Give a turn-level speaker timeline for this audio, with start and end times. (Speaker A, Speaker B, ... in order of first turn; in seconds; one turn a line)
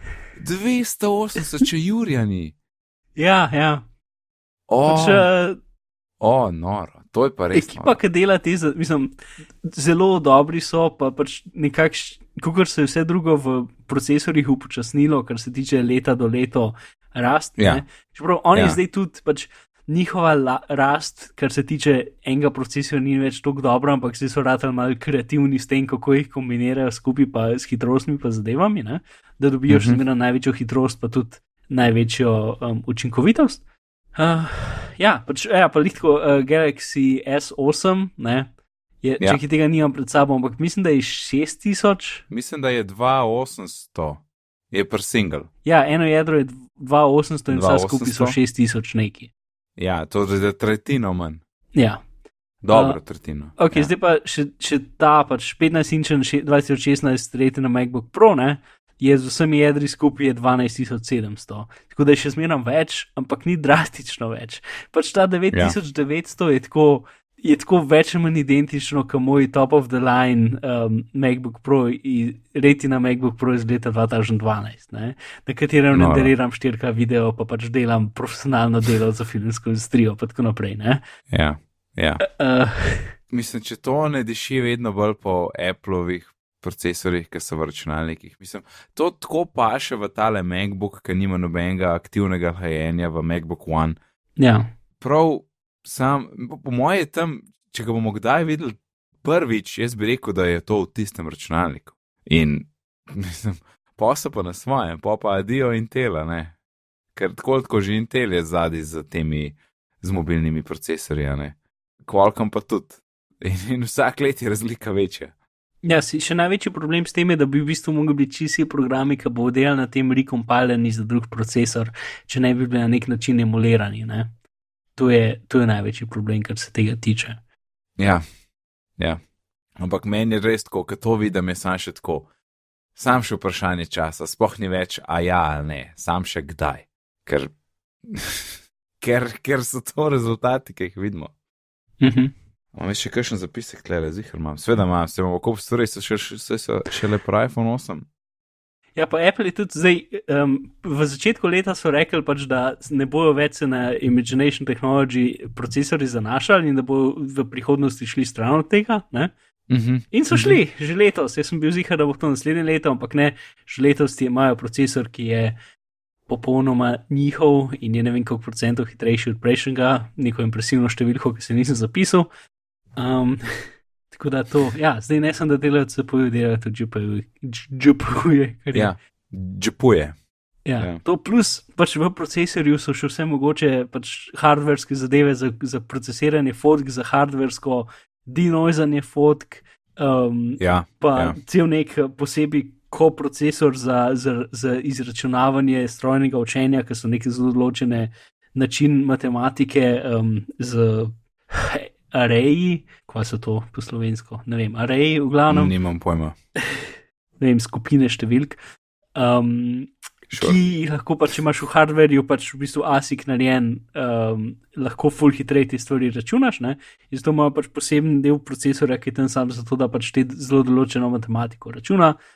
Speaker A: 0.4-2.5
Speaker B: 3.1-3.8
Speaker A: 4.7-5.3
Speaker B: 4.8-5.6
Speaker A: 6.2-8.0
Speaker B: 7.5-33.6
Speaker A: 18.5-18.8
Speaker A: 29.7-30.0
Speaker B: 34.1-38.5
Speaker B: 39.0-42.2
Speaker A: 42.3-45.5
Speaker B: 45.6-49.3
Speaker A: 47.5-48.4
Speaker A: 49.8-51.4
Speaker B: 51.7-52.0
Speaker A: 52.6-53.9
Speaker B: 52.7-53.0
Speaker B: 53.6-81.0
Speaker A: 75.9-76.3
Speaker A: 81.3-82.2
Speaker B: 82.2-83.2
Speaker A: 83.3-94.0
Speaker B: 94.4-94.7
Speaker A: 95.0-106.5
Speaker A: 107.2-115.3
Speaker B: 115.8-124.3
Speaker B: 125.0-127.4
Speaker A: 128.0-128.2
Speaker A: 129.8-132.3
Speaker A: 132.9-137.5
Speaker A: 138.0-141.3
Speaker B: 142.0-142.3
Speaker A: 142.7-148.1
Speaker B: 148.9-159.3
Speaker A: 159.7-160.6
Speaker B: 160.1-165.6
Speaker B: 166.3-172.3
Speaker B: 173.0-178.9
Speaker A: 178.7-180.2
Speaker B: 180.7-205.7
Speaker A: 190.6-191.4
Speaker A: 205.5-206.3
Speaker B: 206.7-208.6
Speaker B: 209.2-222.2
Speaker A: 210.3-210.6